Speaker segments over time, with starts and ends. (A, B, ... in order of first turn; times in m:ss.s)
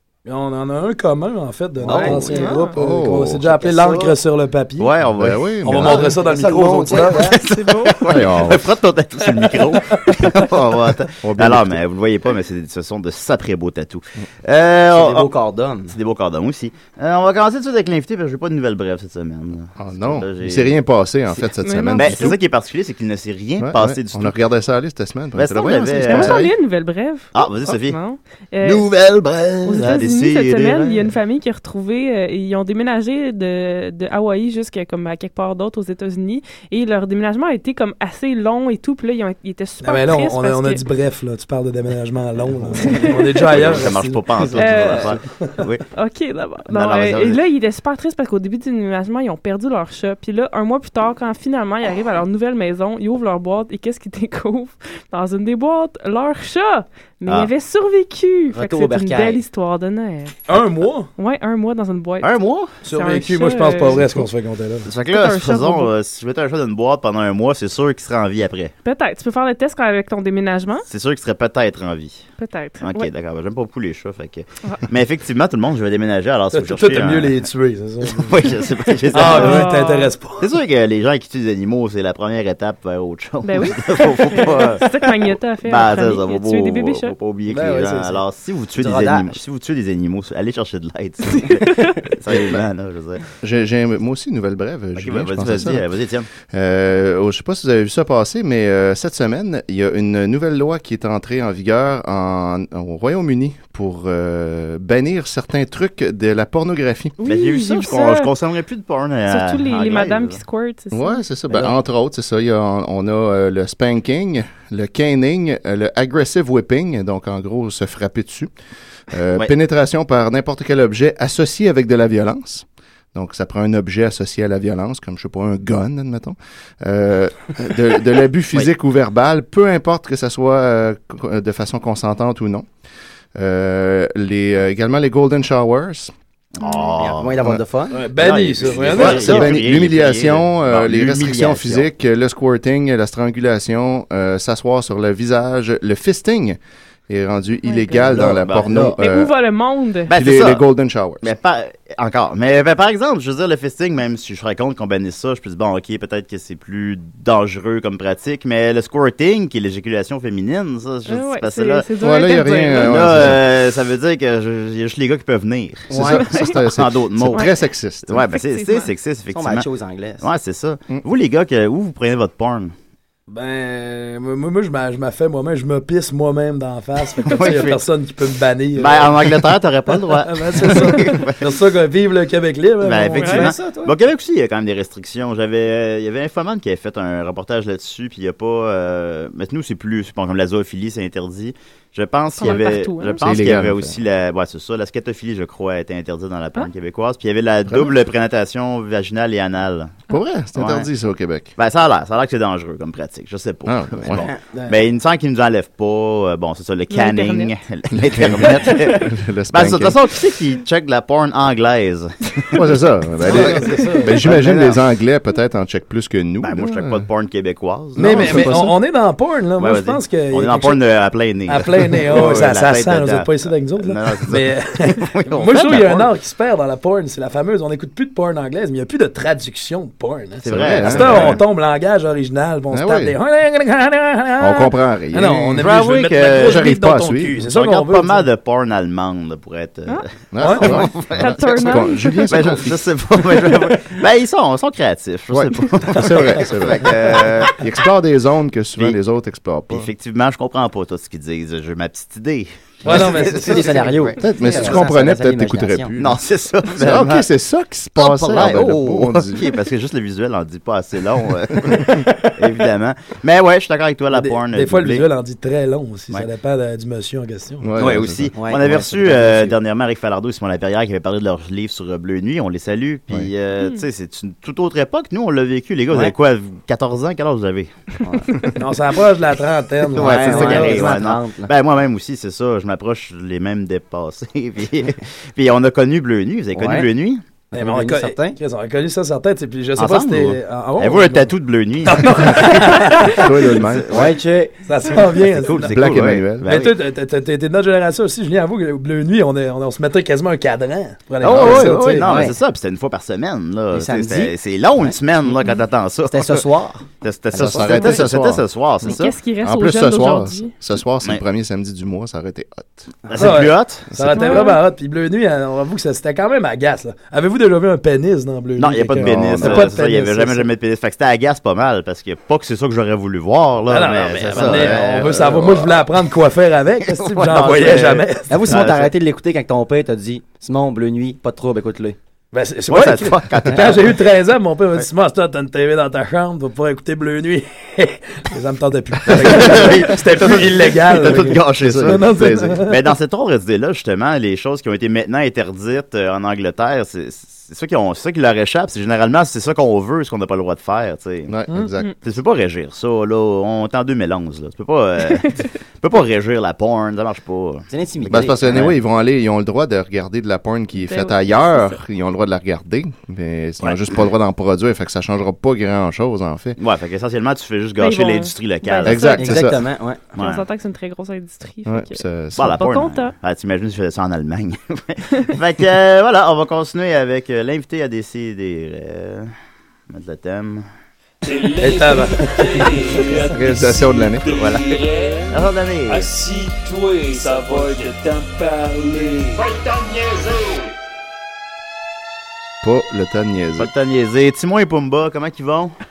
0:00.2-0:04.9 A
0:01.8-0:02.6 B
0:02.2-0:02.8 C
0:02.7-0:03.5 D
0:03.6-0:04.1 B
0:04.8-0:05.5 E
0:05.2-0:06.1 D
0:05.6-0:07.4 A
0:05.8-0:07.4 B
0:07.2-0:15.3 E
0:07.2-0:08.0 C
0:08.0-0:08.6 D
0:11.2-0:11.8 D
0:14.9-0:16.0 B
0:15.9-0:20.8 E
0:19.8-0:22.4 D
0:21.6-0:22.4 C
0:21.9-0:24.4 E
0:23.6-0:26.5 D
0:25.3-0:26.5 E
0:26.0-0:28.9 C
0:27.3-0:28.0 E
0:28.6-0:31.1 E
0:29.6-0:40.8 C
0:39.8-0:45.5 A
0:42.8-0:43.4 C
0:43.4-0:45.8 E
0:44.5-0:45.2 C
0:46.0-1:00.4 C
0:46.6-0:47.4 E
0:57.2-0:57.5 E
0:58.5-0:59.4 B
1:00.5-1:01.1 A
1:01.2-1:04.2 C
1:02.2-1:02.7 E
1:02.8-1:04.9 A
1:04.8-1:08.7 E
1:05.0-1:05.9 C
1:08.8-1:10.8 C
1:10.9-1:12.3 E
1:12.4-1:13.1 C
1:12.8-1:17.4 E
1:16.5-1:18.4 A
1:18.0-1:19.7 E
1:19.1-1:20.5 A
1:19.3-1:20.1 C
1:20.4-1:33.2 E
1:23.4-1:27.1 C
1:27.5-1:28.2 A
1:28.8-1:29.4 B
1:31.4-1:31.9 C
1:32.3-1:32.6 B
1:33.4-1:35.8 D
1:35.0-1:36.3 E
1:36.5-1:47.2 D
1:47.2-1:48.3 C
1:47.2-1:50.4 E
1:49.3-1:51.2 C
1:50.9-1:58.5 D
1:59.1-2:12.7 D
2:13.4-2:16.1 D
2:16.5-2:17.4 E
2:16.6-2:16.9 C
2:17.0-2:18.0 B
2:17.9-2:19.5 A
2:18.2-2:21.9 E
2:18.9-2:26.6 D
2:27.1-2:29.3 D
2:27.6-2:28.2 C
2:28.1-2:28.9 E
2:28.8-2:30.1 C
2:30.1-2:30.6 E
2:30.1-2:31.3 D
2:31.2-2:41.9 E
2:41.1-2:43.3 C
2:42.0-2:43.5 D
2:42.6-2:47.5 E
2:45.9-2:46.2 B
2:45.9-2:48.2 D
2:46.1-2:46.6 C
2:48.1-2:49.7 E
2:48.2-2:48.9 C
2:49.3-2:50.2 B
2:50.2-2:52.7 E
2:53.3-2:59.2 A
2:57.2-2:57.8 E
2:58.8-3:01.4 E
2:59.9-3:03.5 A
3:02.8-3:20.0 E
3:03.2-3:03.9 B
3:12.4-3:13.3 C
3:13.2-3:14.0 D
3:17.7-3:18.0 D
3:20.1-3:21.5 D
3:20.5-3:20.9 E
3:21.6-3:32.7 E
3:23.6-3:24.3 D
3:24.1-3:24.4 B
3:24.5-3:24.8 A
3:26.9-3:27.5 C
3:27.9-3:30.0 D
3:32.5-3:37.0 D
3:33.2-3:34.2 A
3:34.2-3:34.8 E
3:36.4-3:38.6 E
3:38.0-3:38.8 D
3:38.0-3:40.8 A
3:39.6-3:46.1 E
3:41.5-3:58.3 A
3:42.1-3:42.4 D
3:50.4-3:51.4 E
3:50.5-3:51.4 D
3:52.7-3:53.2 D
3:54.4-3:57.4 D
3:55.6-4:07.6 E
3:59.9-4:02.3 C
4:00.3-4:02.8 D
4:00.4-4:00.7 A
4:05.3-4:09.9 D
4:09.7-4:14.1 E
4:12.8-4:13.9 A
4:12.9-4:15.9 B
4:14.2-4:19.5 D
4:16.0-4:17.3 E
4:18.0-4:25.0 E
4:24.1-4:27.7 A
4:27.6-4:28.3 D
4:27.8-4:37.7 E
4:28.3-4:29.5 B
4:33.6-4:33.8 C
4:38.0-4:38.3 B
4:38.6-4:40.9 A
4:39.9-4:47.2 E
4:39.9-4:41.5 B
4:46.5-4:46.9 B
4:47.5-4:48.4 B
4:47.5-4:51.3 A
4:49.8-4:52.9 E
4:51.8-4:53.3 A
4:52.6-4:54.1 D
4:53.6-4:54.0 E
4:53.9-4:54.6 B
4:54.6-4:55.8 A
4:55.3-4:56.8 E
4:55.5-4:56.5 D
4:56.4-5:02.1 A
5:01.2-5:06.4 E
5:01.2-5:02.0 D
5:01.3-5:02.4 B
5:03.7-5:04.9 B
5:06.1-5:08.0 B
5:07.0-5:09.1 E
5:07.3-5:08.9 D
5:08.8-5:10.5 C
5:09.4-5:12.9 D
5:13.1-5:14.4 E
5:13.2-5:20.5 A
5:14.1-5:14.6 C
5:18.6-5:25.5 E
5:19.0-5:19.7 D
5:23.7-5:28.5 A
5:24.2-5:25.4 D
5:27.0-5:28.9 E
5:28.3-5:32.0 B
5:32.3-5:42.8 A
5:32.7-5:34.0 E
5:39.2-5:51.3 E
5:41.6-5:42.6 D
5:51.3-5:51.9 D
5:52.0-5:57.7 E
5:57.7-5:58.7 B
5:58.0-6:06.6 D
5:58.5-5:58.7 E
6:00.8-6:01.8 C
6:06.6-6:09.2 E
6:07.8-6:09.5 C
6:08.8-6:09.6 D
6:09.1-6:10.1 B
6:10.1-6:13.1 C
6:10.2-6:10.4 E
6:11.6-6:12.6 D
6:12.4-6:19.3 E
6:19.9-6:20.6 E
6:21.2-6:30.7 F
6:21.6-6:22.8 A
6:23.3-6:24.3 D
6:24.3-6:24.6 E
6:25.3-6:26.1 E
6:32.6-6:33.7 D
6:33.6-6:35.7 E